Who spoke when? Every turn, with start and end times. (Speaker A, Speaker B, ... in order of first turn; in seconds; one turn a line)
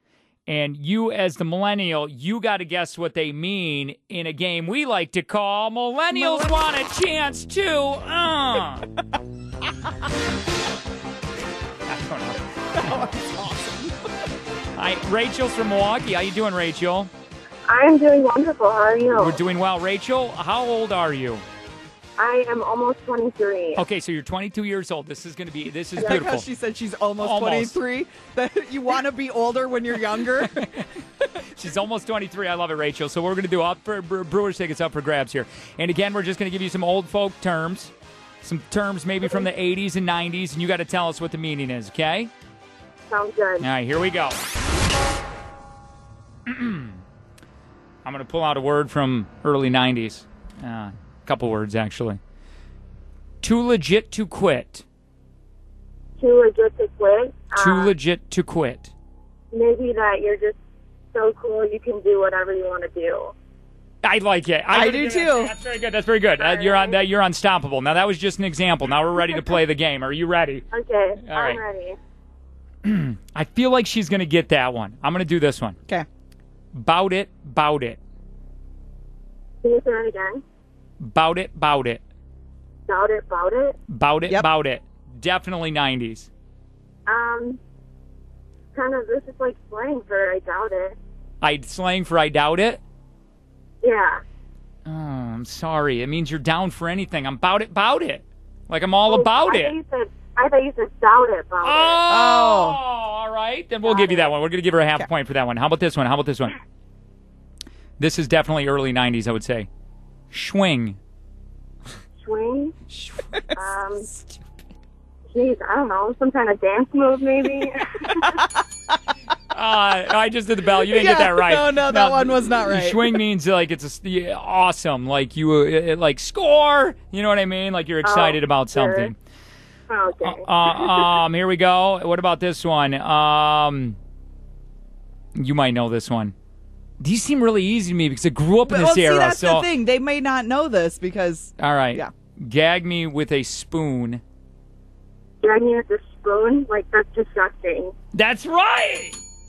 Speaker A: 0.5-8.9
Speaker B: 6.1-6.7
Speaker A: 11.9-13.0
Speaker B: 12.8-13.9
Speaker A: 14.8-17.1
Speaker C: 17.7-19.4
Speaker A: 19.1-21.4
Speaker C: 22.2-23.8
Speaker A: 23.8-26.4
Speaker B: 26.0-30.8
Speaker A: 27.2-27.8
Speaker A: 31.3-42.3
Speaker C: 43.1-43.6
Speaker A: 43.6-44.4
Speaker A: 46.5-47.0
Speaker A: 48.0-52.2
Speaker A: 53.4-54.8
Speaker C: 56.2-57.9
Speaker A: 57.5-58.9
Speaker C: 59.5-60.6
Speaker C: 61.1-63.3
Speaker A: 64.0-70.6
Speaker B: 64.7-65.5
Speaker C: 66.4-67.0
Speaker C: 70.7-72.0
Speaker A: 71.2-71.6
Speaker A: 72.8-75.8
Speaker A: 76.7-78.0
Speaker C: 79.6-80.4
Speaker A: 81.0-82.0
Speaker C: 82.9-83.8
Speaker A: 83.9-86.3
Speaker C: 87.1-87.6
Speaker C: 88.7-91.0
Speaker A: 91.4-92.8
Speaker C: 93.8-94.2
Speaker A: 94.8-99.7
Speaker C: 99.1-102.0
Speaker A: 101.6-106.5
Speaker B: 102.1-102.8
Speaker C: 103.8-104.3
Speaker A: 108.0-109.7
Speaker A: 110.3-111.0
Speaker C: 112.2-112.7
Speaker C: 113.5-114.1
Speaker C: 115.3-118.4
Speaker A: 119.5-129.1
Speaker B: 120.8-123.2
Speaker C: 128.0-129.1
Speaker C: 129.9-131.1
Speaker A: 130.2-134.0
Speaker A: 135.3-136.3
Speaker A: 137.0-139.7
Speaker B: 138.6-142.1
Speaker A: 141.6-144.2
Speaker C: 145.4-147.9
Speaker A: 148.1-149.2